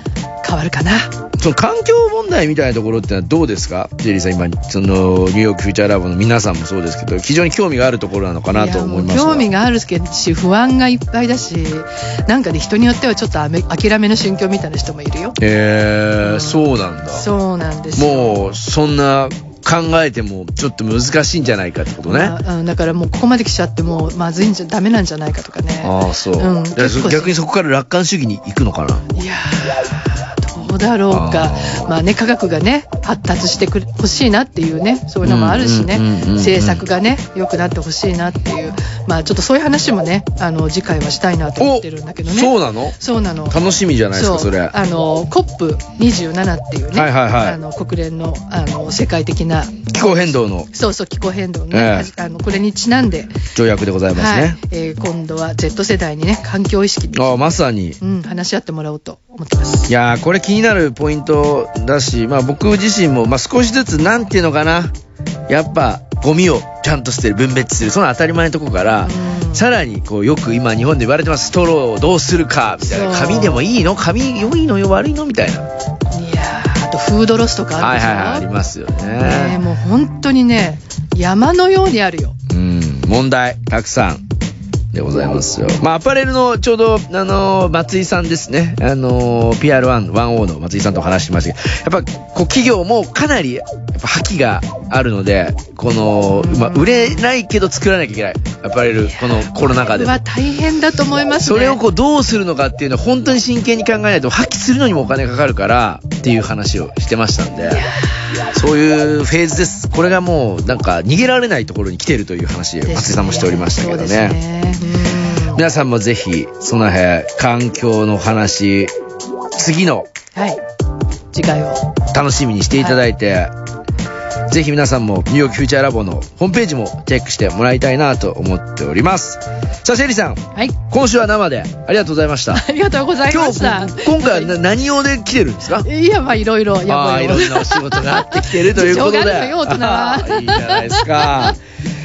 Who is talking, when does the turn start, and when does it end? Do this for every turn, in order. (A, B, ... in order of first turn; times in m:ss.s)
0:00.4-0:01.1 A
0:01.4-0:09.5 B
0:08.5-0:15.4 A
0:15.4-0:17.3 B
0:16.2-0:18.4 A
0:17.9-0:22.4 B
0:22.1-0:27.3 A
0:25.8-0:29.0 B
0:29.2-0:43.6 A
0:31.1-0:31.9 B
0:35.2-0:36.8 B
0:41.6-0:43.0 B
0:43.5-0:44.7 B
0:44.1-0:53.4 A
0:46.9-0:47.6 B
0:49.9-0:50.7 B
0:51.7-0:52.1 B
0:53.5-0:54.6 B
0:54.1-0:57.5 A
0:57.1-0:58.0 B
0:58.0-0:59.9 A
0:59.9-1:04.9 B
1:05.5-1:15.6 B
1:09.0-1:09.6 A
1:12.8-1:13.6 A
1:16.1-1:18.4 A
1:17.8-1:19.6 B
1:19.2-1:22.3 A
1:22.5-1:24.2 B
1:24.9-1:40.2 B
1:36.3-1:37.2 A
1:39.1-1:41.8 A
1:41.4-1:47.9 B
1:47.7-1:48.2 A
1:48.5-1:54.4 B
1:52.8-1:55.6 A
1:55.5-1:58.9 B
1:59.5-2:00.1 B
2:01.3-2:01.9 A
2:02.1-2:03.5 B
2:04.5-2:12.6 B
2:12.5-2:14.6 A
2:13.3-2:15.9 B
2:15.8-2:21.5 A
2:16.8-2:21.6 B